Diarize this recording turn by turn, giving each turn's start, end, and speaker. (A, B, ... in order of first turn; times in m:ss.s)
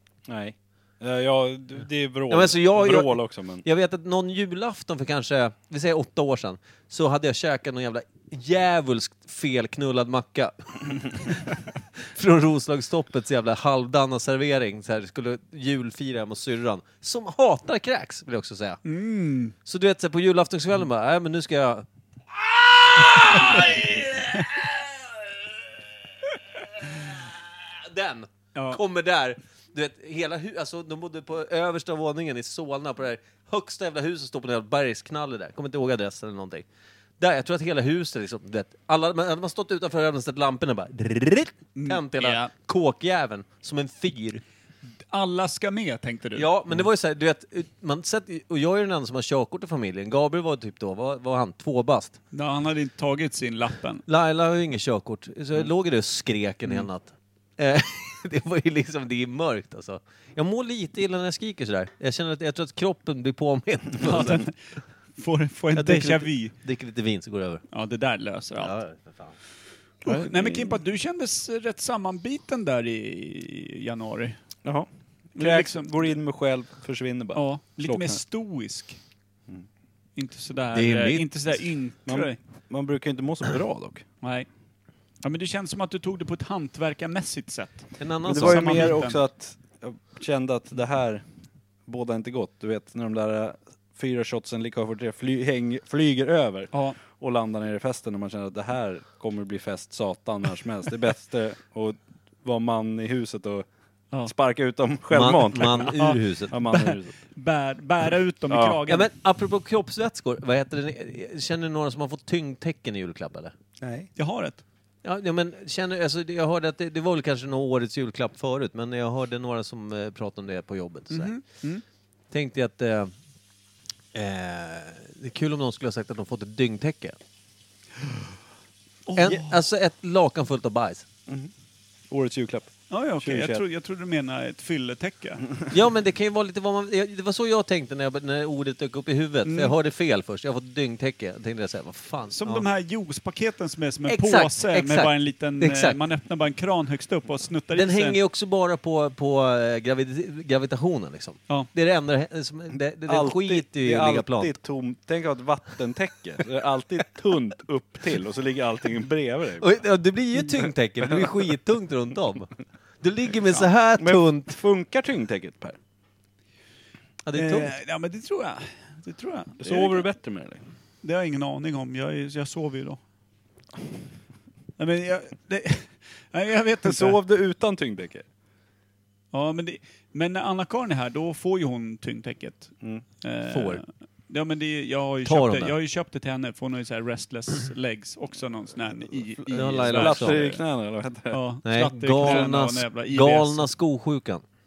0:00.3-0:03.6 A
0:02.3-0:11.4 B
0:12.0-0:18.8 B
0:18.8-0:19.5 C
0:19.6-0:25.5 B
0:26.8-0:36.6 B
0:28.5-0:28.8 C
0:37.2-0:44.4 B
0:41.8-0:42.5 C
0:45.1-0:46.5 C
0:46.3-0:52.2 B
0:52.3-0:54.0 C
0:54.1-1:04.5 B
1:04.0-1:04.6 C
1:05.2-1:06.5 C
1:05.7-1:07.6 B
1:07.7-1:08.8 C
1:08.6-1:09.3 B
1:10.0-1:14.4 C
1:10.0-1:10.8 A
1:14.6-1:18.2 A
1:15.4-1:16.2 C
1:17.3-1:19.0 C
1:20.2-1:22.4 C
1:20.7-1:21.3 B
1:22.0-1:24.0 A
1:24.2-1:24.5 C
1:25.2-1:29.2 C
1:28.0-1:29.0 B
1:28.2-1:31.2 A
1:31.8-1:43.6 A
1:36.7-1:37.0 C
1:44.2-1:46.0 A
1:45.1-1:46.5 B
1:45.9-1:49.1 C
1:46.5-1:47.2 A
1:48.5-1:48.8 A
1:48.9-1:53.5 B
1:53.8-1:54.1 A
1:54.1-1:54.6 C
1:55.0-2:01.3 B
2:01.1-2:01.8 C
2:02.3-2:03.1 B
2:04.1-2:07.2 B
2:09.1-2:09.5 C
2:09.2-2:11.0 B
2:12.1-2:13.6 A
2:12.9-2:15.6 C
2:15.7-2:22.6 B
2:19.4-2:19.7 C
2:22.3-2:28.2 C
2:24.1-2:26.0 B
2:27.7-2:34.5 B
2:33.1-2:39.7 A
2:39.6-2:42.5 B
2:43.0-2:44.5 B
2:44.0-2:45.8 A
2:47.2-2:47.7 B
2:47.3-2:50.1 C
2:49.6-2:50.6 A
2:51.0-2:53.0 C
2:54.8-2:57.2 C
2:56.8-2:58.2 A
2:59.3-3:10.6 C
3:03.5-3:03.8 B
3:05.2-3:05.7 B
3:09.4-3:11.4 A
3:09.5-3:10.4 B
3:11.3-3:13.7 C
3:11.6-3:14.4 B